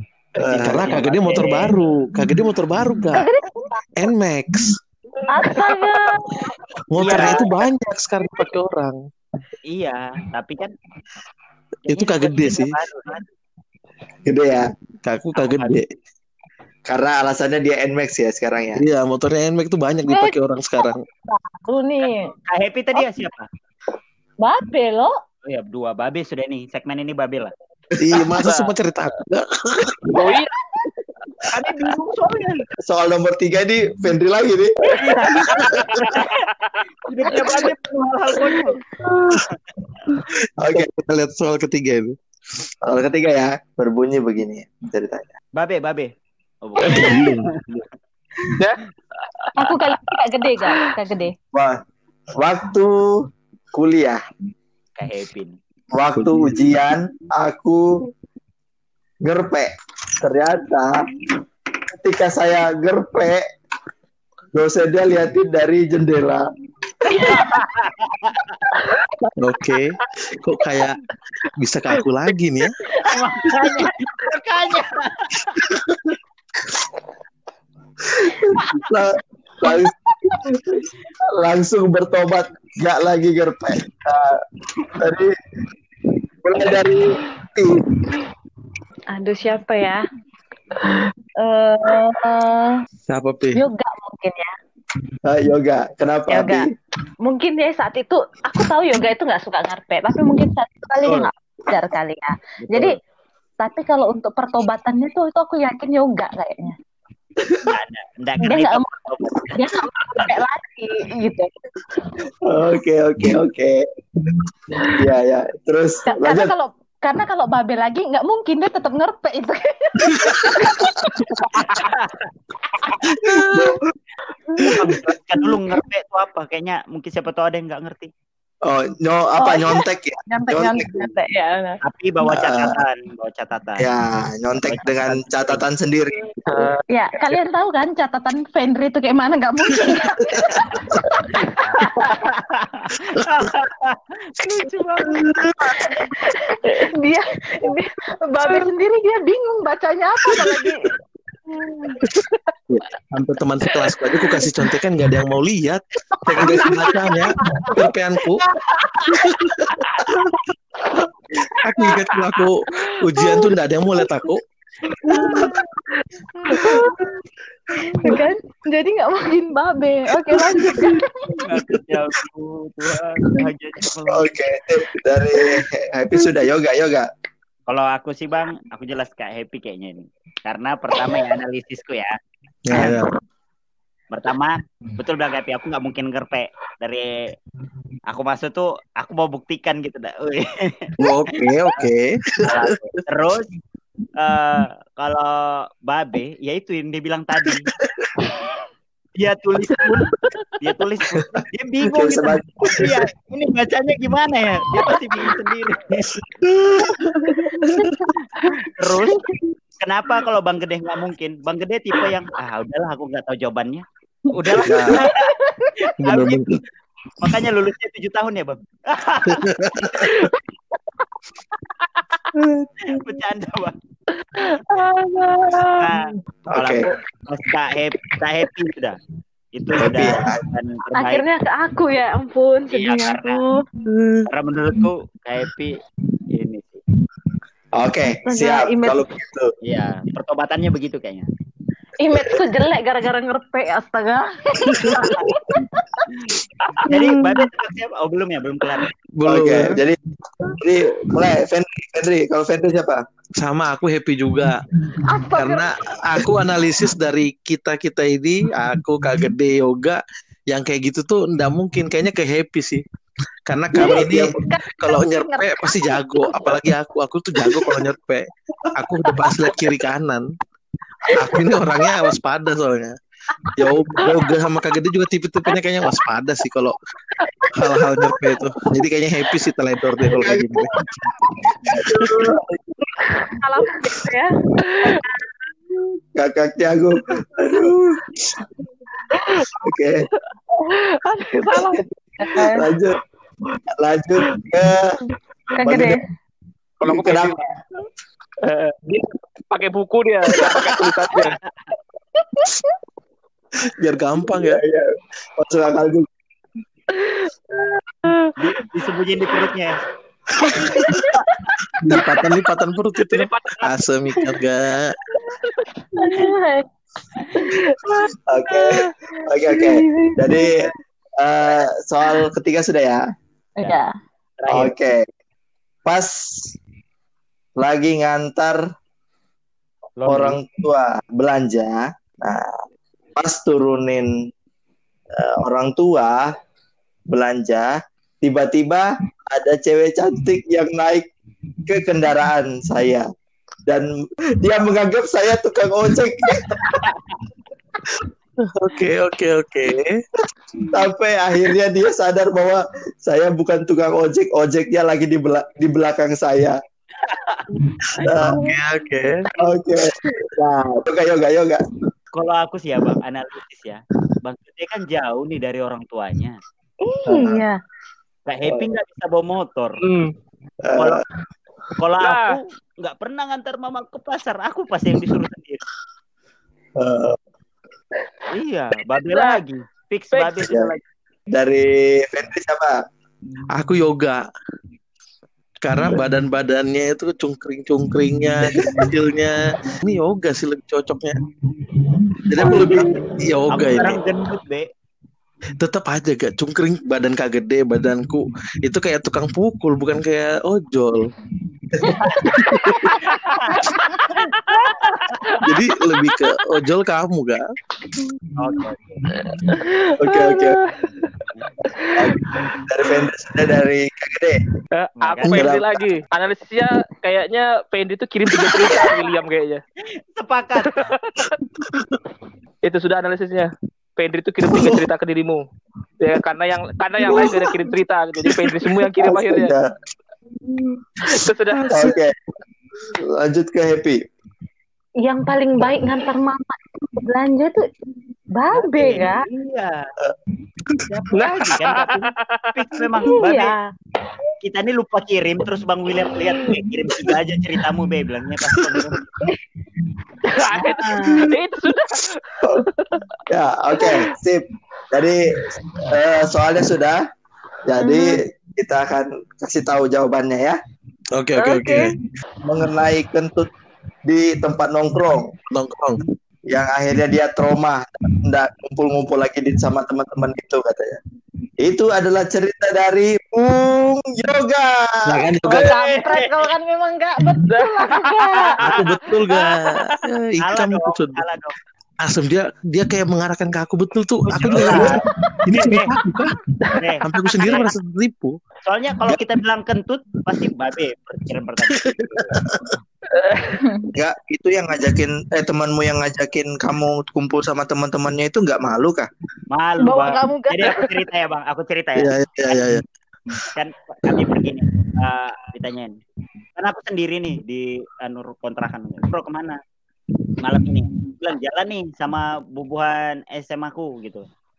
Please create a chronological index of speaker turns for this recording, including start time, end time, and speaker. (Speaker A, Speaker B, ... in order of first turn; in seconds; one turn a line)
Speaker A: 0.4-1.8
Speaker B: 0.4-0.9
Speaker C: 0.6-3.3
Speaker D: 3.1-3.8
Speaker C: 4.0-4.8
Speaker D: 5.3-6.4
Speaker E: 5.5-6.0
Speaker C: 6.9-9.0
Speaker A: 7.0-7.5
Speaker B: 7.1-7.3
Speaker A: 9.7-10.7
Speaker A: 11.8-13.2
Speaker C: 11.9-12.7
Speaker B: 14.3-14.7
Speaker C: 15.0-15.9
Speaker A: 15.3-15.7
Speaker B: 16.9-18.8
Speaker C: 18.8-21.0
Speaker D: 20.1-20.4
Speaker D: 21.3-22.3
Speaker A: 22.5-23.5
Speaker D: 24.4-25.1
Speaker A: 25.5-27.5
Speaker C: 28.0-30.0
Speaker E: 28.4-28.7
Speaker E: 30.1-30.5
Speaker A: 31.5-32.7
Speaker B: 32.9-35.8
Speaker A: 34.9-36.4
Speaker A: 37.0-38.8
Speaker C: 40.3-42.1
Speaker B: 40.6-40.9
Speaker B: 42.8-45.3
Speaker A: 45.5-46.1
Speaker A: 46.6-47.5
Speaker C: 46.8-47.6
Speaker E: 49.4-49.8
Speaker D: 49.5-51.3
Speaker B: 51.5-51.8
Speaker B: 52.4-53.0
Speaker B: 53.7-54.2
Speaker A: 55.0-55.5
Speaker B: 55.9-58.0
Speaker C: 56.1-56.7
Speaker B: 59.2-60.9
Speaker B: 61.9-63.4
Speaker B: 64.5-66.5
Speaker A: 67.0-68.6
Speaker D: 67.2-67.4
Speaker C: 69.4-71.0
Speaker C: 71.6-72.7
Speaker A: 73.0-75.6
Speaker C: 75.5-76.1
Speaker B: 78.2-84.4
Speaker B: 85.0-85.3
Speaker B: 86.4-88.0
Speaker D: 89.1-90.1
Speaker D: 90.8-92.8
Speaker C: 93.1-93.6
Speaker D: 93.5-94.5
Speaker B: 95.3-96.6
Speaker D: 96.3-96.7
Speaker D: 97.2-103.0
Speaker A: 102.6-102.9
Speaker D: 103.6-106.8
Speaker B: 107.4-107.7
Speaker A: 107.7-109.7
Speaker D: 108.4-111.5
Speaker B: 112.4-113.8
Speaker B: 114.8-116.5
Speaker D: 116.1-120.9
Speaker C: 120.6-121.1
Speaker A: 121.5-122.2
Speaker C: 123.2-123.7
Speaker B: 123.2-123.8
Speaker B: 124.6-125.1
Speaker A: 124.6-128.1
Speaker B: 128.6-131.1
Speaker D: 129.4-131.8
Speaker A: 131.8-133.9
Speaker B: 132.2-132.8
Speaker B: 133.8-136.2
Speaker A: 134.7-135.6
Speaker E: 136.5-136.8
Speaker D: 136.9-142.1
Speaker C: 139.8-140.0
Speaker A: 141.6-145.2
Speaker C: 145.1-145.9
Speaker D: 145.8-150.9
Speaker C: 152.7-158.4
Speaker D: 156.2-157.7
Speaker C: 159.1-159.7
Speaker C: 161.6-164.4
Speaker D: 163.1-164.1
Speaker C: 165.1-165.5
Speaker D: 165.1-165.6
Speaker B: 165.1-165.5
Speaker D: 166.4-167.1
Speaker D: 167.9-171.3
Speaker C: 170.3-171.0
Speaker A: 171.4-174.3
Speaker B: 174.1-177.1
Speaker A: 177.7-182.2
Speaker C: 182.7-183.1
Speaker A: 182.7-183.0
Speaker A: 184.1-187.3
Speaker A: 188.1-191.5
Speaker C: 191.0-192.7
Speaker A: 192.4-193.5
Speaker A: 194.2-197.7
Speaker C: 197.7-198.1
Speaker A: 199.2-206.2
Speaker B: 201.8-203.0
Speaker C: 206.5-208.1
Speaker A: 208.1-209.2
Speaker A: 209.8-216.4
Speaker B: 214.7-215.0
Speaker C: 214.7-215.0
Speaker D: 214.8-215.9
Speaker C: 216.0-216.6
Speaker A: 217.2-219.4
Speaker C: 219.2-220.3
Speaker D: 220.1-220.4
Speaker A: 222.8-223.7
Speaker D: 224.4-225.9
Speaker A: 225.7-229.0
Speaker B: 226.5-226.9
Speaker A: 229.5-231.2
Speaker B: 229.8-230.4
Speaker D: 230.9-233.6
Speaker A: 232.7-233.4
Speaker C: 233.8-234.3
Speaker A: 234.3-236.8
Speaker B: 237.8-239.5
Speaker D: 238.2-239.1
Speaker A: 239.6-241.3
Speaker D: 242.0-246.0
Speaker A: 244.8-245.3
Speaker A: 246.1-248.9
Speaker C: 246.9-247.3
Speaker C: 249.1-249.8
Speaker B: 249.2-250.0
Speaker B: 250.6-253.0
Speaker C: 253.4-254.6
Speaker D: 255.1-255.7
Speaker C: 255.3-262.8
Speaker C: 263.5-270.2
Speaker D: 263.7-266.5
Speaker B: 263.8-264.4
Speaker D: 267.5-267.8
Speaker C: 271.1-272.9
Speaker C: 273.6-276.8
Speaker B: 273.6-273.9
Speaker D: 274.0-274.3
Speaker D: 277.4-278.4
Speaker C: 277.5-280.8
Speaker B: 280.2-280.8
Speaker D: 281.2-281.6
Speaker B: 281.6-282.5
Speaker C: 281.9-282.3
Speaker D: 282.9-285.1
Speaker B: 286.1-288.4
Speaker D: 289.2-289.5
Speaker B: 289.5-290.1
Speaker D: 290.6-292.7
Speaker B: 291.4-291.8
Speaker B: 292.4-293.0
Speaker B: 293.8-295.0
Speaker D: 295.6-296.0
Speaker B: 295.6-296.0
Speaker B: 296.8-297.6
Speaker E: 296.9-297.3
Speaker E: 298.4-300.7
Speaker B: 300.3-301.4
Speaker C: 300.5-301.3
Speaker C: 303.8-304.6
Speaker B: 304.3-304.9
Speaker B: 305.4-306.1
Speaker D: 307.1-307.6
Speaker A: 308.4-309.8
Speaker C: 310.4-311.0
Speaker D: 310.8-311.2
Speaker C: 311.8-315.0
Speaker E: 313.0-313.7
Speaker D: 315.9-316.6
Speaker D: 317.3-320.7
Speaker B: 318.3-323.0
Speaker D: 323.6-323.9
Speaker A: 324.4-324.7
Speaker B: 324.5-325.0
Speaker B: 325.9-326.1
Speaker B: 327.6-328.6
Speaker A: 330.0-330.4
Speaker B: 330.1-332.5
Speaker B: 333.1-334.1
Speaker B: 335.2-336.4
Speaker B: 337.1-341.1
Speaker B: 341.7-343.1
Speaker B: 344.4-346.8
Speaker A: 346.7-347.3
Speaker C: 348.4-349.9
Speaker B: 350.7-356.6
Speaker A: 357.0-357.4
Speaker B: 357.6-358.4
Speaker C: 358.2-359.2
Speaker D: 358.2-358.6
Speaker B: 359.4-361.6
Speaker A: 362.1-366.4
Speaker D: 366.8-367.6
Speaker B: 367.1-367.4
Speaker A: 368.3-369.8
Speaker E: 369.8-370.1
Speaker B: 370.6-371.0
Speaker A: 370.7-371.0
Speaker A: 371.8-375.6
Speaker E: 372.0-372.4
Speaker B: 376.8-377.2
Speaker A: 378.3-380.8
Speaker E: 379.1-379.4
Speaker E: 380.1-380.5
Speaker B: 380.4-380.7
Speaker B: 381.3-382.8
Speaker C: 383.5-384.2
Speaker C: 385.6-391.2
Speaker B: 388.4-388.9
Speaker B: 391.7-394.0
Speaker C: 392.3-394.0
Speaker A: 392.4-392.8
Speaker A: 393.5-394.7
Speaker C: 395.6-401.1
Speaker B: 401.7-403.0
Speaker C: 402.3-402.7
Speaker A: 402.9-405.3
Speaker E: 405.2-405.6
Speaker C: 405.4-407.4
Speaker A: 408.4-409.0
Speaker D: 409.5-410.9
Speaker B: 410.0-410.6
Speaker B: 411.9-414.4
Speaker E: 414.8-419.6
Speaker A: 415.0-415.5
Speaker B: 415.3-415.8
Speaker A: 420.1-420.9
Speaker E: 420.7-421.4
Speaker C: 421.6-421.9
Speaker E: 422.6-425.4
Speaker B: 424.5-424.8
Speaker E: 426.0-429.5
Speaker B: 427.0-427.5
Speaker B: 429.0-429.6
Speaker E: 431.0-431.9
Speaker C: 431.5-432.0
Speaker B: 431.7-432.1
Speaker B: 433.0-434.0
Speaker D: 435.0-437.7
Speaker D: 438.3-439.3
Speaker A: 438.5-439.9
Speaker A: 440.9-443.5
Speaker E: 441.1-442.4
Speaker D: 443.0-443.7
Speaker A: 444.4-449.1
Speaker D: 450.2-451.3
Speaker E: 450.3-453.0
Speaker B: 450.9-451.4
Speaker B: 452.4-452.7
Speaker B: 453.3-457.0
Speaker D: 453.8-454.1
Speaker B: 457.6-460.6
Speaker D: 457.8-458.2
Speaker C: 461.1-461.9
Speaker D: 461.4-461.9
Speaker B: 462.4-463.5
Speaker B: 464.1-465.3
Speaker C: 465.5-466.0
Speaker B: 466.5-471.0
Speaker B: 471.6-475.6
Speaker C: 475.1-475.7
Speaker D: 475.4-478.8
Speaker A: 475.4-476.5
Speaker E: 477.5-478.5
Speaker C: 478.6-481.2
Speaker A: 480.4-481.5
Speaker C: 482.0-484.9
Speaker A: 484.3-485.9
Speaker B: 484.5-484.9
Speaker D: 484.9-485.4
Speaker C: 485.4-486.4
Speaker A: 486.8-487.7
Speaker C: 487.0-488.4
Speaker A: 488.6-492.4
Speaker C: 491.8-492.7
Speaker E: 493.1-493.6
Speaker D: 493.6-493.9
Speaker B: 493.9-499.1
Speaker A: 499.5-502.6
Speaker D: 499.8-501.0
Speaker C: 502.0-502.8
Speaker A: 503.5-505.9
Speaker A: 506.6-509.6
Speaker A: 510.4-514.2